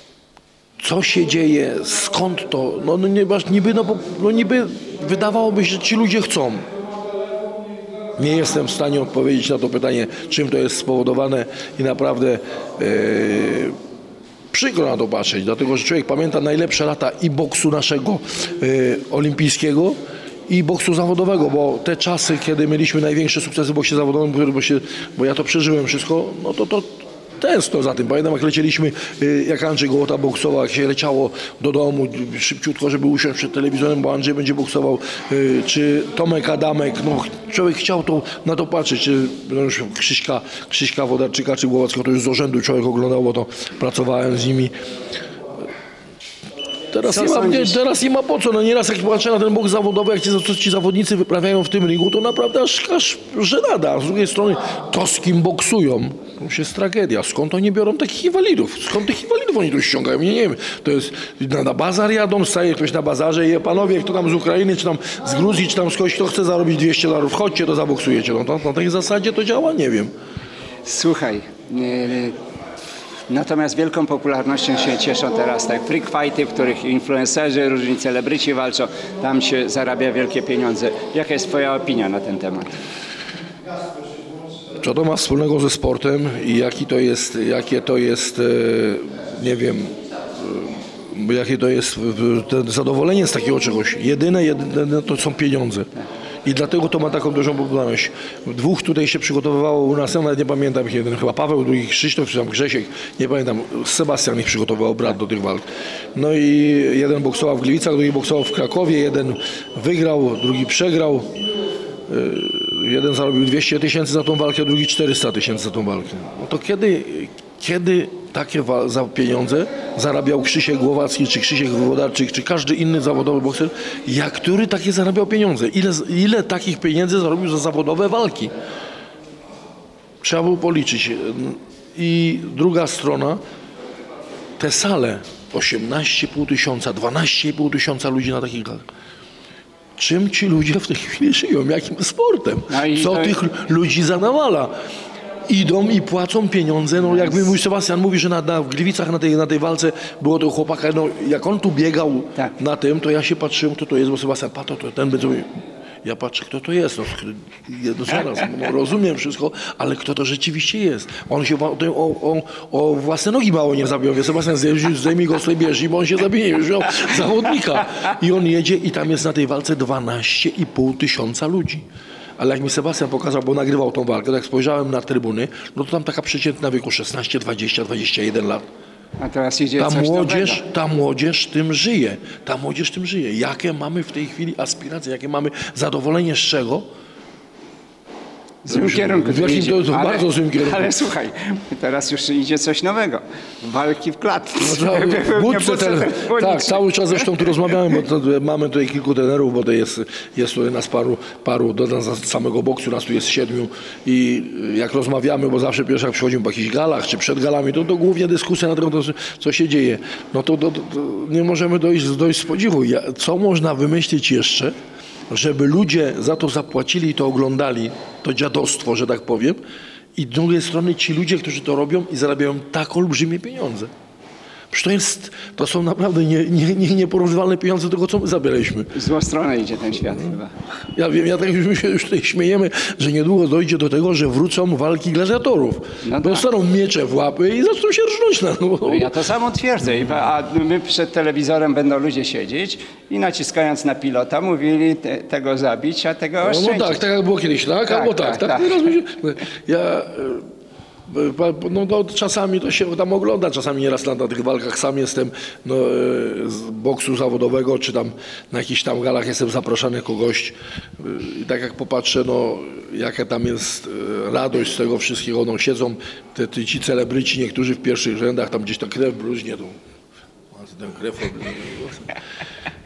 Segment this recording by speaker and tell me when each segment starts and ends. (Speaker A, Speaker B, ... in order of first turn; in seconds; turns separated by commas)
Speaker A: 0.8-6.6, Speaker A: 8.2-13.8, Speaker A: 14.5-44.7, Speaker A: 46.9-70.1, Speaker B: 47.0-47.8, Speaker B: 70.8-72.4, Speaker B: 73.3-82.8, Speaker A: 84.8-95.9, Speaker A: 96.5-111.3, Speaker A: 112.1-128.5, Speaker A: 130.2-133.4, Speaker A: 134.6-138.9, Speaker A: 140.0-144.7, Speaker B: 142.7-143.4, Speaker A: 145.5-155.5, Speaker A: 156.0-171.8, Speaker A: 172.4-178.6, Speaker B: 179.2-180.6, Speaker A: 179.8-186.9, Speaker B: 188.6-197.5, Speaker A: 188.7-190.9, Speaker A: 194.6-214.7, Speaker A: 215.3-219.6, Speaker A: 220.2-223.9, Speaker A: 224.7-228.9, Speaker B: 228.9-230.5, Speaker A: 230.9-239.1, Speaker B: 236.0-236.5, Speaker B: 238.8-247.0, Speaker A: 246.4-250.4, Speaker B: 247.9-248.9, Speaker A: 251.1-269.8, Speaker A: 270.5-272.1